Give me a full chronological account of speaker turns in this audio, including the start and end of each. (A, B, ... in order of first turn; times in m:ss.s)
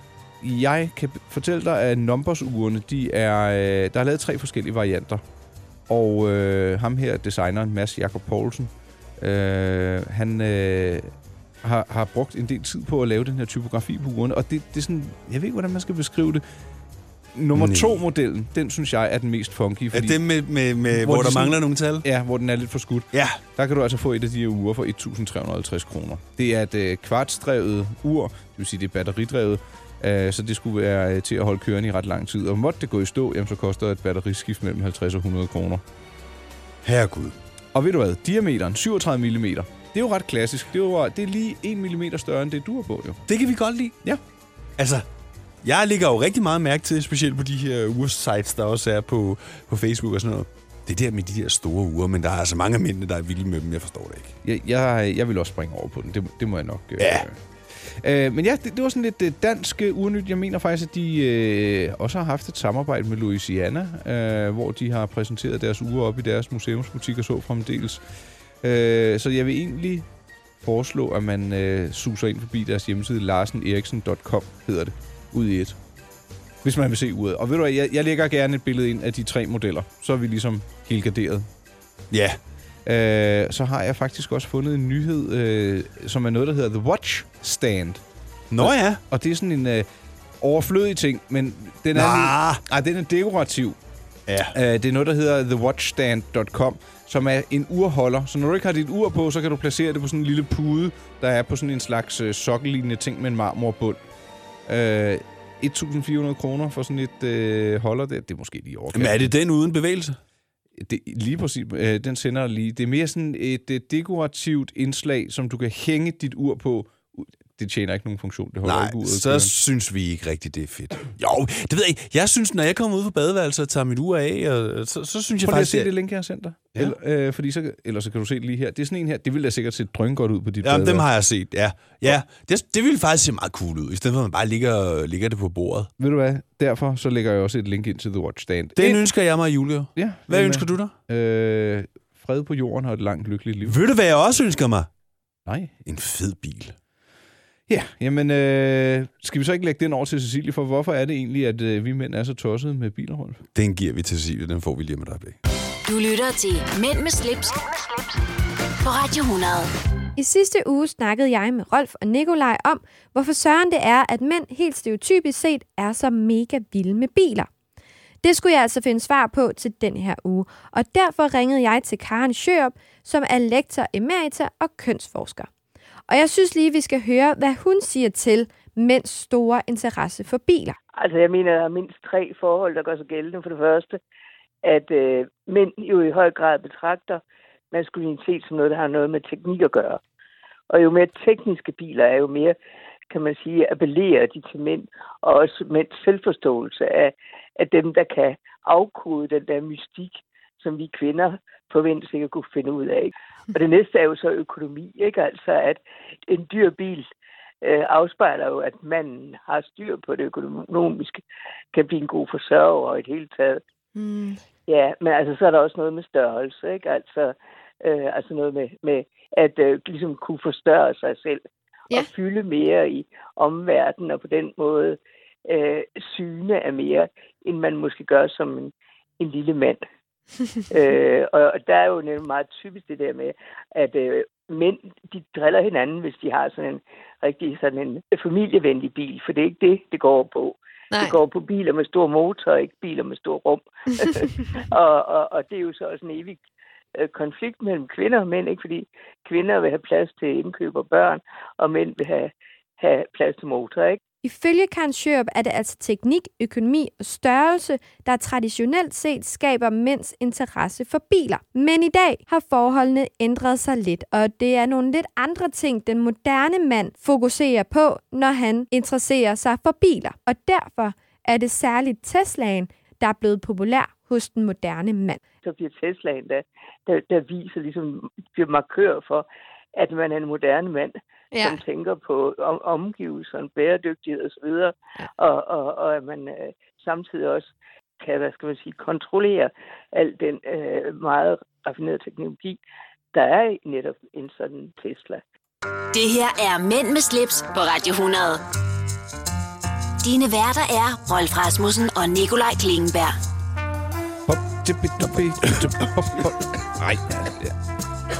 0:00.4-0:05.2 A
0:05.9-0:11.1 A
0:11.6-0:16.4 A
0:17.4-0:20.2 A
0:17.6-0:18.0 B
0:19.9-0:22.0 B
0:20.9-0:35.8 A
0:23.1-0:23.4 B
0:36.8-0:37.4 B
0:37.7-0:43.2 A
0:43.3-0:44.0 B
0:44.8-0:45.1 B
0:45.6-0:54.4 B
0:54.4-0:57.4 A
0:57.0-0:57.3 B
0:58.0-1:08.0 A
1:08.6-1:10.1 A
1:10.6-1:15.8 A
1:16.6-1:21.5 A
1:22.1-1:22.4 B
1:22.9-1:28.0 A
1:28.5-1:29.0 B
1:28.6-1:29.9 A
1:30.4-1:33.8 A
1:31.9-1:32.6 B
1:34.3-1:34.6 B
1:34.5-1:44.0 A
1:44.7-1:49.3 A
1:48.9-1:50.2 B
1:50.8-1:59.5 A
1:58.6-2:05.9 B
2:05.4-2:11.1 A
2:10.6-2:15.9 B
2:16.0-2:19.0 A
2:18.8-2:20.9 B
2:20.0-2:23.8 A
2:23.6-2:24.9 B
2:25.5-2:25.8 A
2:25.9-2:26.8 B
2:27.7-2:33.4 A
2:33.6-2:35.4 B
2:35.9-2:37.7 C
2:38.8-2:39.7 C
2:40.2-2:47.5 D
2:48.2-2:55.5 D
2:56.1-3:00.8 D
3:01.0-3:04.0 E
3:04.6-3:10.0 E
3:10.7-3:12.6 E
3:13.1-3:27.1 E
3:27.6-3:31.2 E
3:31.7-3:33.6 E
3:34.7-3:49.8 E
3:50.7-4:06.4 E
4:07.0-4:14.0 E
4:14.2-4:35.2 D
4:35.4-4:52.6 E
4:53.1-4:55.2 E
4:55.9-4:58.4 C
5:00.0-5:03.2 C
5:04.3-5:07.5 A